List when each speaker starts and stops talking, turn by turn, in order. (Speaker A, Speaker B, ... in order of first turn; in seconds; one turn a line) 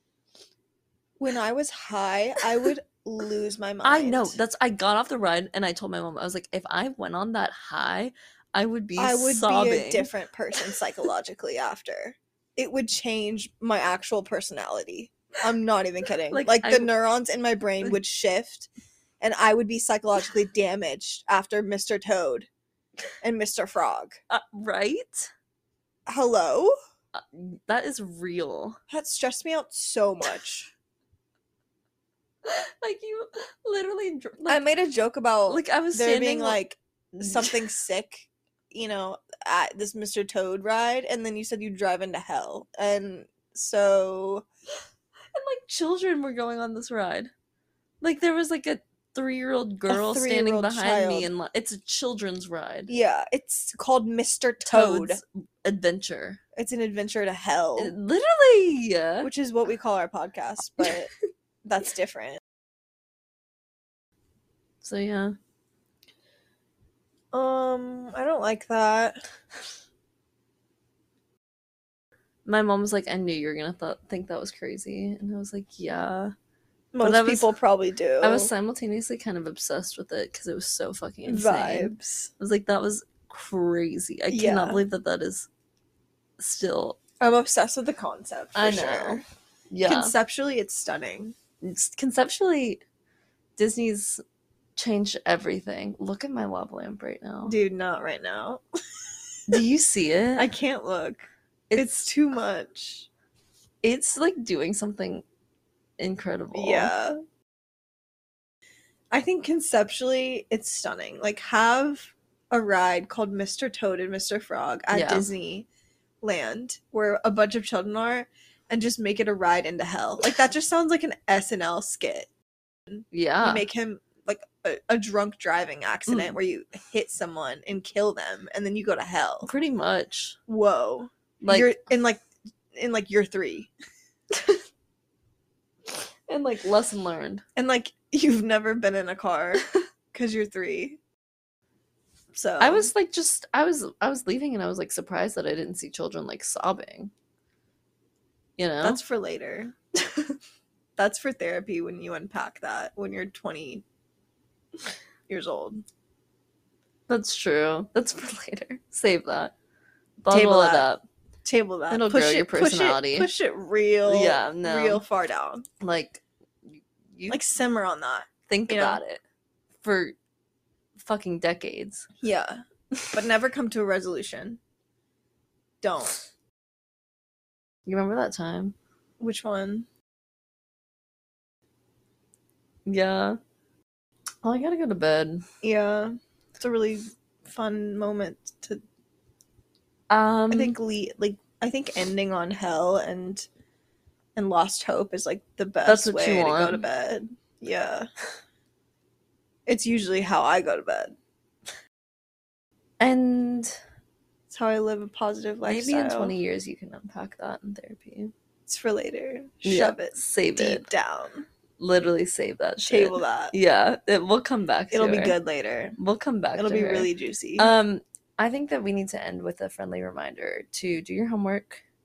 Speaker A: 1.2-4.3
Speaker B: 3.8-10.1
Speaker A: 9.0-18.7
Speaker B: 16.3-16.9
Speaker A: 19.2-22.5
Speaker A: 23.2-24.2
Speaker B: 24.3-25.3
Speaker A: 26.1-26.7
Speaker B: 27.1-28.8
Speaker A: 28.9-30.7
Speaker B: 32.4-34.6
Speaker A: 34.5-44.5
Speaker B: 35.5-36.6
Speaker B: 37.2-37.6
Speaker B: 45.3-47.3
Speaker B: 48.0-52.9
Speaker A: 49.9-51.3
Speaker A: 52.9-55.2
Speaker B: 54.6-56.4
Speaker A: 56.5-57.9
Speaker B: 57.8-59.3
Speaker A: 59.2-61.1
Speaker A: 61.6-62.4
Speaker B: 64.8-65.3
Speaker A: 67.3-69.2
Speaker B: 72.5-76.3
Speaker A: 76.9-78.5
Speaker B: 77.0-77.5
Speaker B: 78.2-85.5
Speaker A: 81.2-82.3
Speaker A: 84.3-84.8
Speaker B: 86.4-87.0
Speaker A: 87.2-89.2
Speaker B: 88.5-90.1
Speaker A: 89.8-91.3
Speaker B: 91.6-92.8
Speaker B: 93.6-94.2
Speaker B: 94.8-97.5
Speaker A: 97.5-98.6
Speaker B: 99.5-100.5
Speaker A: 100.4-103.1
Speaker B: 101.7-101.9
Speaker B: 103.8-105.2
Speaker B: 106.0-106.9
Speaker A: 106.5-107.2
Speaker A: 109.1-115.7
Speaker B: 114.9-115.3
Speaker A: 116.2-122.3
Speaker A: 123.0-129.5
Speaker B: 123.1-123.7
Speaker B: 126.1-126.3
Speaker B: 129.4-130.4
Speaker A: 130.5-133.7
Speaker B: 131.4-131.7
Speaker B: 134.3-134.6
Speaker B: 135.9-137.4
Speaker A: 137.6-141.0
Speaker A: 142.3-142.9
Speaker B: 142.6-147.1
Speaker B: 148.6-149.0
Speaker A: 148.8-149.8
Speaker A: 151.0-153.8
Speaker A: 155.3-155.8
Speaker B: 157.1-159.5
Speaker B: 160.2-161.0
Speaker A: 160.3-160.9
Speaker A: 161.4-165.7
Speaker B: 161.9-163.3
Speaker B: 164.0-165.0
Speaker B: 165.8-167.4
Speaker A: 167.3-169.0
Speaker B: 168.5-169.2
Speaker B: 169.8-170.2
Speaker B: 171.0-172.1
Speaker A: 172.2-174.6
Speaker B: 172.9-173.2
Speaker A: 175.8-176.2
Speaker B: 177.8-178.8
Speaker A: 179.2-179.9
Speaker B: 182.8-183.4
Speaker B: 184.4-185.4
Speaker A: 185.6-188.8
Speaker B: 190.1-190.8
Speaker A: 190.5-193.5
Speaker A: 194.3-198.1
Speaker B: 195.8-196.8
Speaker A: 199.7-201.2
Speaker B: 203.0-203.8
Speaker A: 204.5-206.3
Speaker B: 205.6-208.3
Speaker A: 208.7-211.4
Speaker B: 209.6-210.9
Speaker B: 211.8-215.3
Speaker A: 212.8-213.5
Speaker A: 214.9-215.9
Speaker B: 216.0-221.8
Speaker A: 216.5-217.7